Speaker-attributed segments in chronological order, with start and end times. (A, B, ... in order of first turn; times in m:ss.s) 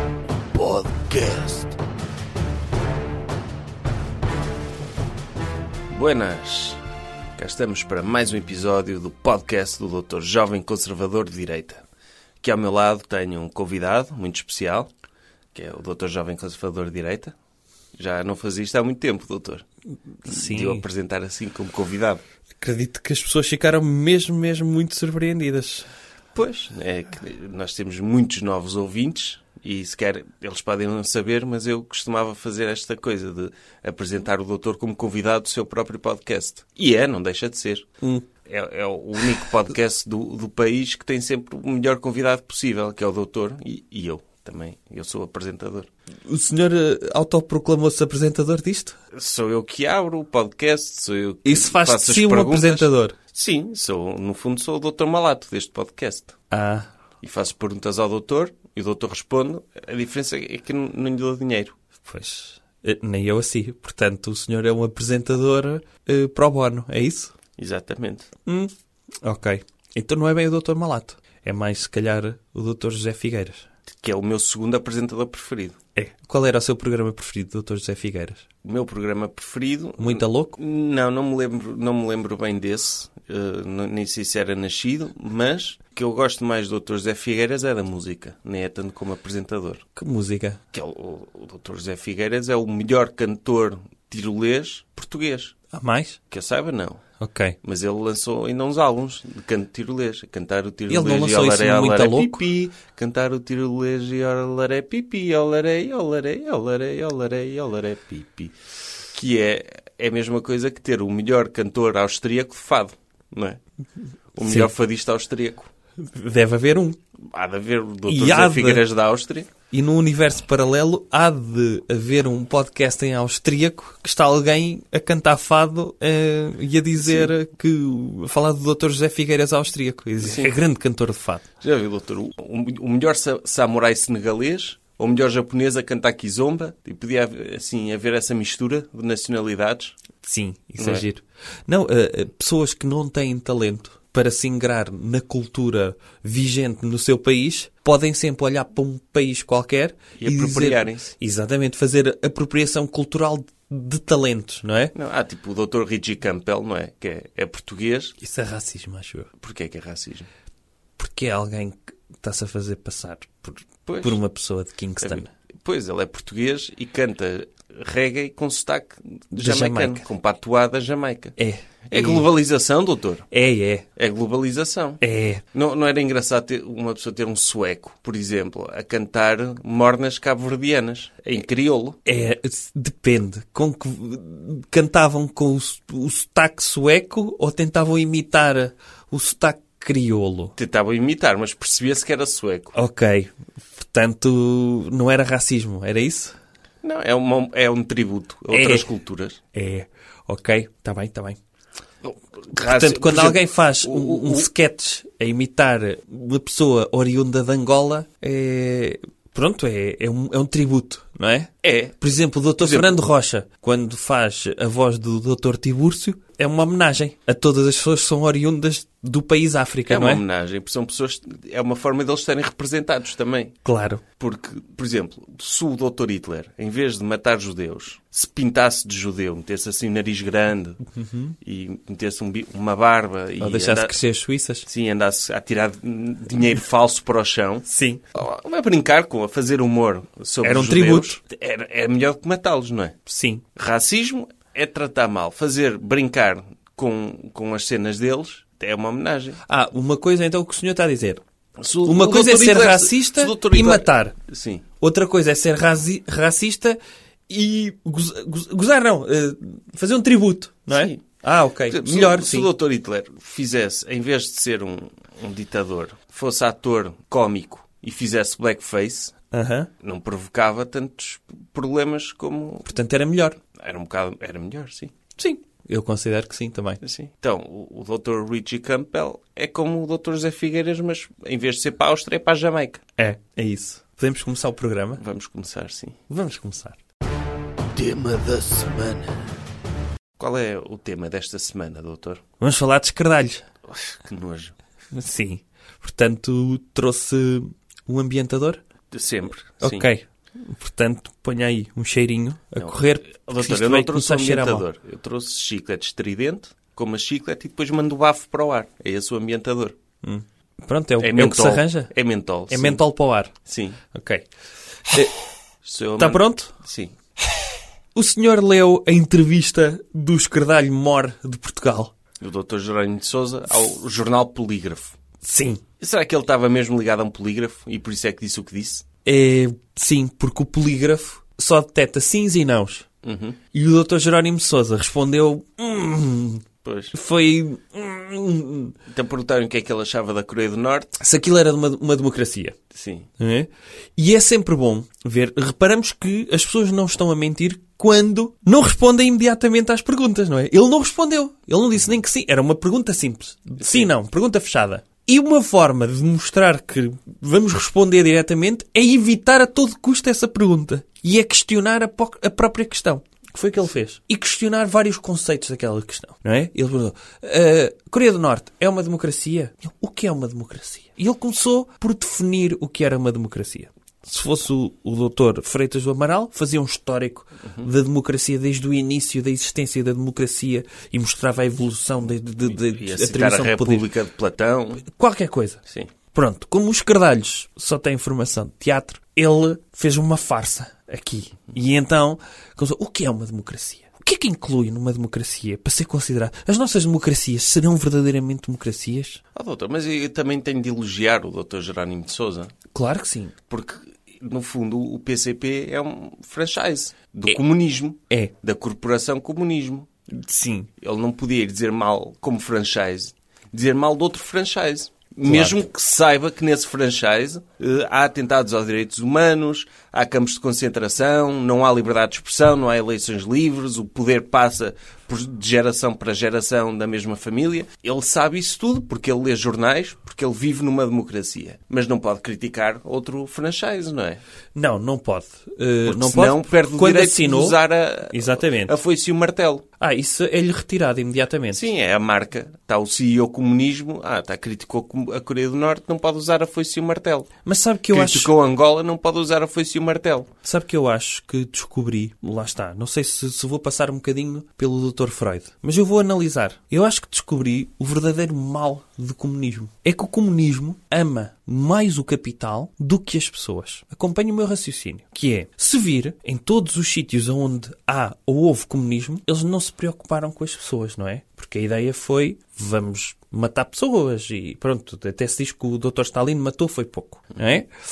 0:00.5-0:01.8 A
0:05.9-0:06.8 A
0:07.4-0:11.8 A
0:12.4-0:14.9 A
0:15.5-0:17.3 A
0:18.0-0:19.6 A
0:20.2-0:20.8 B
0:20.3-0:22.2 A
0:22.6-0:25.9 B
0:26.4-0:37.9 A
0:38.4-0:45.9 A
0:46.3-0:49.0 B
0:49.1-0:56.4 A
0:51.4-0:53.2 B
0:56.5-0:56.9 B
0:57.2-1:01.8 A
1:02.0-1:07.3 B
1:07.6-1:08.3 A
1:08.4-1:08.7 B
1:09.2-1:13.7 B
1:13.9-1:15.8 A
1:16.0-1:18.5 B
1:18.6-1:29.8 A
1:20.0-1:20.6 B
1:30.0-1:30.6 B
1:30.7-1:35.6 A
1:35.7-1:36.2 B
1:36.3-1:37.0 A
1:37.2-1:37.6 B
1:37.6-1:48.6 A
1:40.9-1:42.4 B
1:49.1-1:53.6 A
1:54.4-1:55.7 A
1:54.4-1:54.7 B
1:56.0-1:57.0 B
1:57.2-1:59.5 A
1:58.1-1:58.8 B
1:59.7-2:11.4 B
2:07.0-2:07.3 A
2:10.2-2:10.5 A
2:11.6-2:20.0 A
2:20.2-2:34.9 B
2:20.8-2:21.0 A
2:30.2-2:31.1 A
2:34.9-2:38.2 A
2:38.2-2:39.3 B
2:39.4-2:40.3 A
2:41.0-2:45.3 B
2:43.8-2:44.1 A
2:45.0-2:51.4 A
2:49.3-2:50.0 B
2:51.4-2:52.3 B
2:51.9-2:53.3 A
2:53.3-2:53.8 B
2:54.0-2:55.0 A
2:55.0-2:55.4 B
2:55.5-3:02.0 A
3:02.0-3:10.6 B
3:10.6-3:12.7 A
3:12.7-3:16.3 B
3:16.8-3:19.4 A
3:18.5-3:18.9 B
3:19.5-3:21.4 B
3:22.0-3:24.5 A
3:22.5-3:40.2 B
3:31.6-3:31.9 A
3:32.6-3:33.0 A
3:39.9-3:43.6 A
3:43.6-3:44.0 B
3:44.2-3:50.8 A
3:50.9-3:51.3 B
3:51.4-3:54.0 A
3:53.4-3:54.7 B
3:54.7-4:03.0 A
3:57.7-3:58.0 B
4:00.4-4:01.2 B
4:03.0-4:03.4 B
4:03.5-4:09.4 A
4:09.4-4:11.2 B
4:11.6-4:14.6 A
4:11.8-4:14.2 B
4:14.8-4:16.8 B
4:17.3-4:22.5 B
4:20.7-4:21.0 A
4:21.7-4:29.2 A
4:29.3-4:29.7 B
4:29.8-4:32.7 A
4:32.7-4:33.4 B
4:33.5-4:34.9 A
4:35.2-4:36.8 B
4:36.8-4:42.8 A
4:43.0-4:45.0 B
4:45.0-4:46.0 A
4:46.1-4:46.8 B
4:47.8-4:49.2 A
4:50.2-4:52.2 A
4:52.4-4:53.5 B
4:53.7-4:54.6 A
4:54.9-4:58.6 B
4:58.9-4:59.9 A
4:59.6-5:04.6 B
5:02.6-5:09.8 A
5:10.0-5:11.9 B
5:11.0-5:12.8 A
5:12.5-5:13.3 B
5:13.4-5:13.8 A
5:13.9-5:14.2 B
5:14.9-5:15.2 B
5:15.6-5:16.9 A
5:16.0-5:16.5 B
5:17.9-5:21.9 B
5:22.2-5:25.0 A
5:25.2-5:25.6 B
5:25.8-5:28.9 A
5:29.0-5:32.8 B
5:33.0-5:33.4 A
5:33.5-5:38.8 B
5:36.6-5:36.9 A
5:38.9-5:41.0 A
5:41.0-5:42.6 B
5:42.7-5:43.1 A
5:43.2-6:23.9 B
5:53.6-5:53.9 A
6:22.5-6:24.8 A
6:24.9-6:25.6 B
6:26.1-6:39.2 B
6:39.3-6:42.5 A
6:42.7-6:43.4 B
6:43.5-6:49.9 A
6:50.1-6:50.7 B
6:50.8-7:14.2 A
6:55.2-6:55.6 B
7:14.6-7:18.7 B
7:15.8-7:19.6 A
7:19.8-7:21.6 B
7:21.5-7:27.3 A
7:27.4-7:28.3 B
7:27.9-7:30.3 A
7:30.4-7:57.7 B